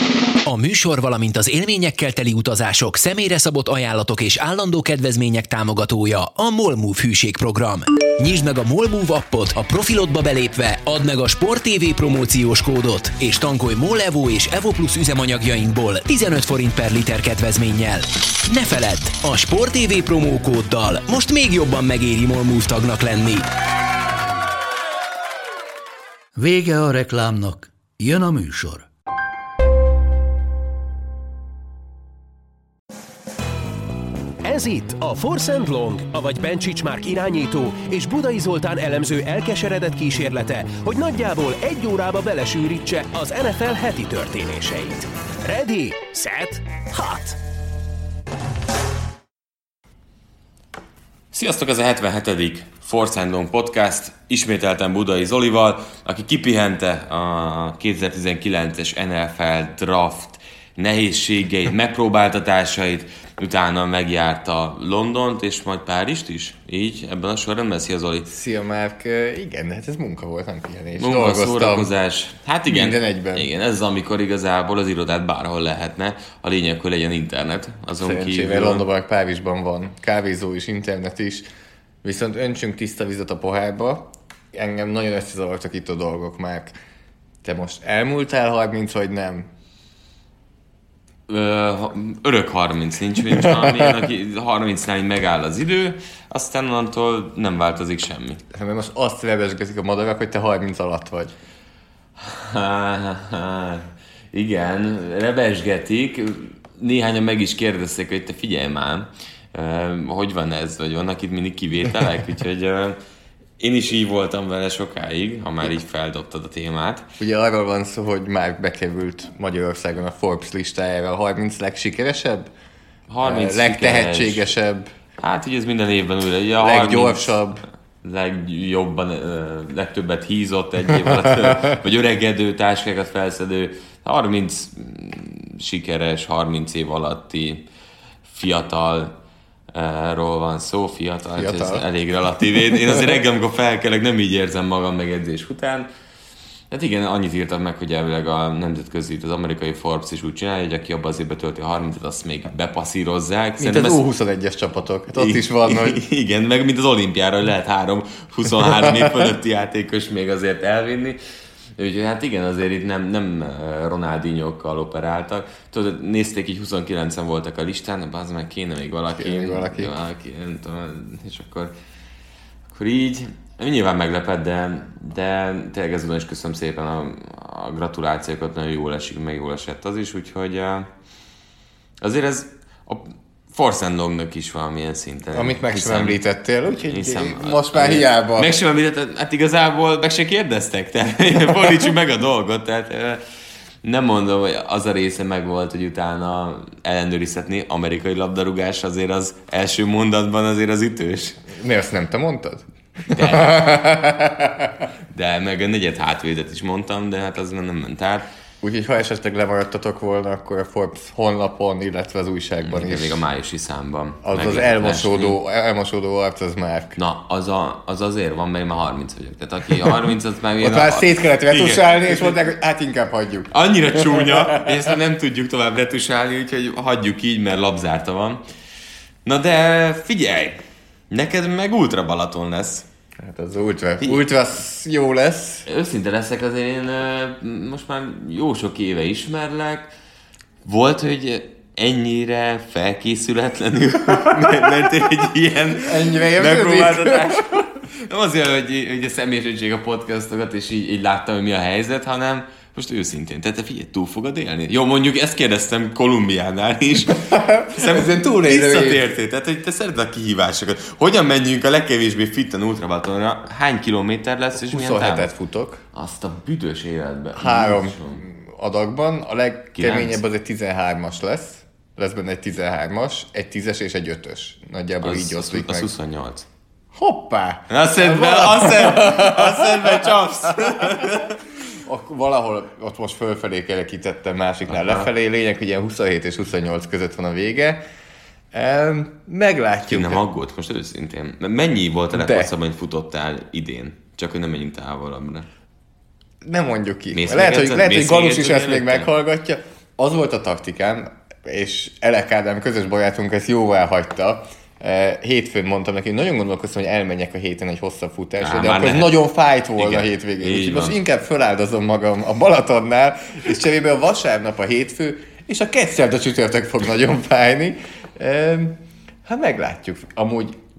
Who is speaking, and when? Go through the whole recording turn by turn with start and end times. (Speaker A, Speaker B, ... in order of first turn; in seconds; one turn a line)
Speaker A: 0.5-23.5
Speaker B: 26.4-28.9
Speaker C: 34.4-47.4
Speaker D: 51.3-68.3
Speaker E: 68.3-71.9
Speaker D: 71.0-78.8
Speaker E: 72.7-73.5
Speaker E: 78.0-81.5
Speaker E: 82.0-86.8
Speaker E: 87.4-89.5
Speaker D: 91.3-98.4
Speaker E: 93.3-93.7
Speaker E: 98.5-101.3
Speaker D: 102.2-113.0
Speaker D: 113.6-117.1
Speaker E: 117.2-122.5
Speaker D: 123.1-124.5
Speaker E: 123.2-124.9
Speaker D: 125.2-127.4
Speaker E: 126.6-127.6
Speaker D: 128.0-137.7
Speaker E: 131.3-131.5
Speaker D: 138.3-139.1
Speaker D: 139.7-145.9
Speaker E: 141.4-141.8
Speaker D: 146.7-154.0
Speaker E: 153.6-156.0
Speaker D: 155.1-161.2
Speaker D: 161.8-171.8
Speaker E: 169.2-169.9
Speaker D: 172.7-180.9
Speaker D: 182.0-186.2
Speaker E: 185.3-188.5
Speaker D: 186.9-193.2
Speaker D: 193.8-201.5
Speaker E: 201.5-204.9
Speaker D: 203.1-203.7
Speaker D: 205.1-208.3
Speaker E: 208.6-213.2
Speaker D: 212.6-215.4
Speaker E: 214.2-217.0
Speaker D: 217.0-222.4
Speaker E: 220.6-224.8
Speaker D: 223.5-228.4
Speaker D: 229.2-232.9
Speaker E: 233.2-235.7
Speaker D: 235.7-239.9
Speaker D: 240.6-265.3
Speaker E: 244.3-244.6
Speaker E: 245.8-247.6
Speaker E: 257.2-259.0
Speaker E: 264.6-265.8
Speaker D: 265.9-268.2
Speaker E: 267.3-275.9
Speaker D: 269.8-270.2
Speaker D: 275.0-276.5
Speaker E: 276.9-287.8
Speaker D: 277.7-281.4
Speaker D: 284.7-285.1
Speaker E: 288.5-290.2
Speaker D: 289.9-295.5
Speaker E: 292.1-292.5
Speaker E: 296.4-320.6
Speaker D: 297.1-299.1
Speaker D: 308.4-311.0